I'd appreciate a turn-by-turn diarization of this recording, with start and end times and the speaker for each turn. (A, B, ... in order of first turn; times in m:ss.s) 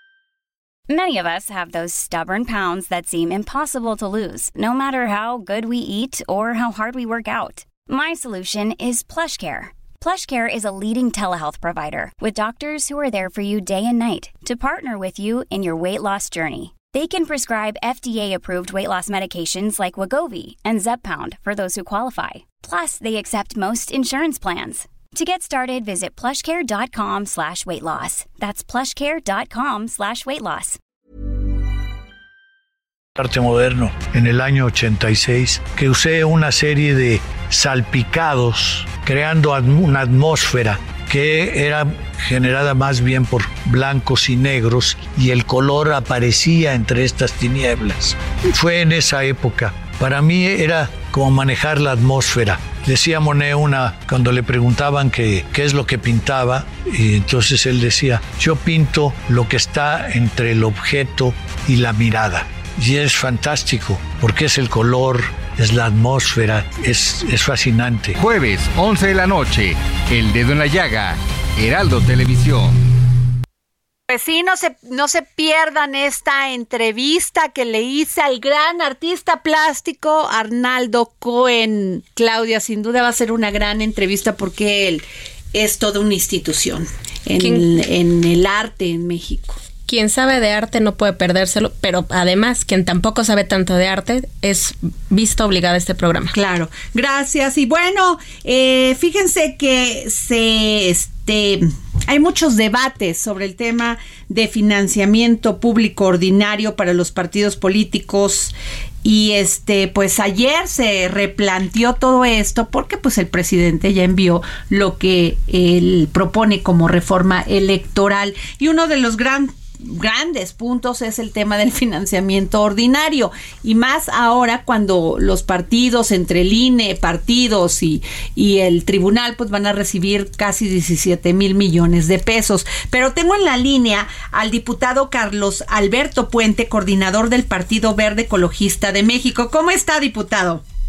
0:00.9-0:30.8 A
0:33.2-1:08.2 B
1:08.2-1:12.7 C
1:14.1-1:29.6 D
1:27.4-1:27.6 E
1:29.9-1:36.3 E
1:36.3-2:20.6 D